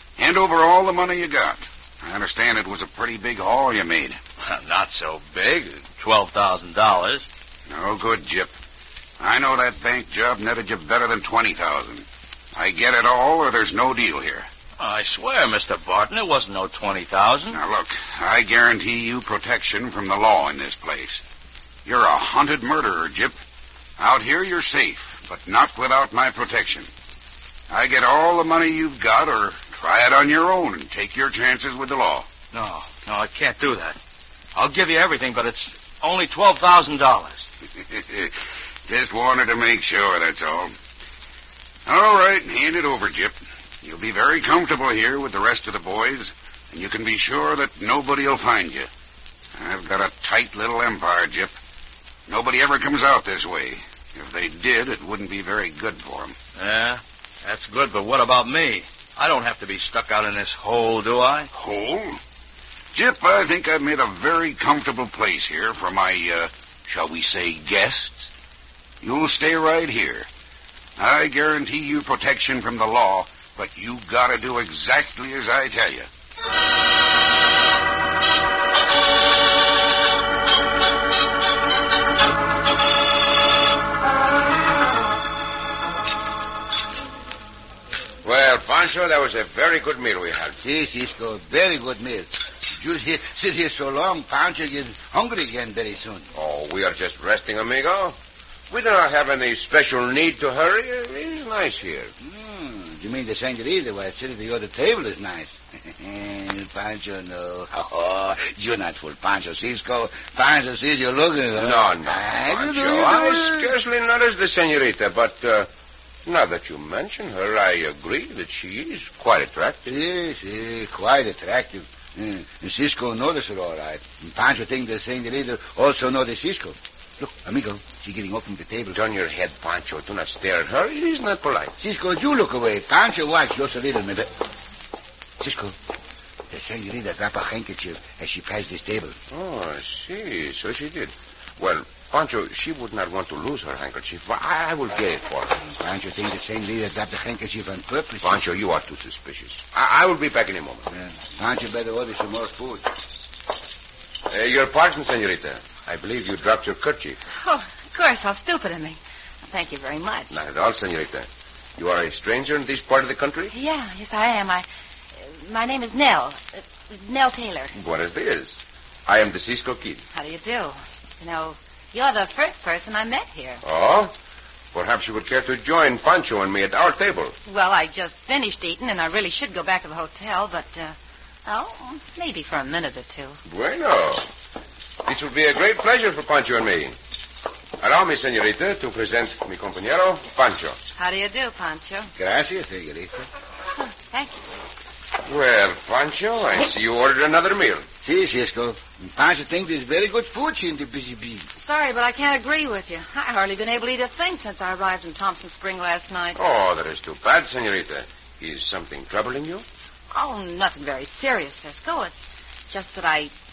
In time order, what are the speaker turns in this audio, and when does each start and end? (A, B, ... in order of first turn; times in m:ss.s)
0:00.2-0:04.2 A
0:04.4-0:07.2 B
0:07.7-0:08.5 A
0:09.2-0:14.5 A
0:14.8-0:17.6 B
0:17.5-0:21.2 A
0:21.8-0:23.4 A
0:24.0-0:26.9 A
0:27.7-0:32.3 A
0:32.5-0:34.0 B
0:34.5-0:37.5 B
0:37.9-0:38.3 A
0:38.9-0:40.7 A
0:41.8-0:48.9 A
0:49.6-0:51.6 A
0:52.3-0:56.3 A
0:56.6-1:01.5 B
1:01.5-1:02.2 A
1:02.9-1:08.3 A
1:09.0-1:10.3 A
1:11.0-1:16.1 A
1:28.2-1:30.6 C
1:30.6-1:36.3 D
1:36.3-1:38.2 C
1:38.7-1:42.1 C
1:42.2-1:53.7 D
1:51.6-1:55.7 C
1:56.2-1:59.8 C
1:59.8-2:09.0 D
2:08.9-2:11.7 C
2:11.8-2:14.3 D
2:15.4-2:15.8 D
2:16.5-2:19.2 D
2:19.3-2:25.6 C
2:25.6-2:28.4 D
2:28.2-2:30.8 C
2:30.9-2:32.9 D
2:34.3-2:37.2 C
2:37.4-2:40.3 E
2:40.3-2:43.5 C
2:43.5-2:44.6 E
2:45.2-2:47.7 E
2:47.8-2:50.0 C
2:50.1-2:53.6 E
2:53.6-2:54.1 C
2:54.7-2:57.3 C
2:57.4-3:03.4 E
3:03.4-3:04.3 C
3:05.0-3:06.9 C
3:07.8-3:10.8 C
3:11.0-3:12.1 E
3:12.2-3:13.3 D
3:13.8-3:14.4 E
3:15.2-3:17.8 C
3:18.0-3:21.5 D
3:21.6-3:26.4 E
3:26.4-3:29.6 C
3:30.1-3:33.3 E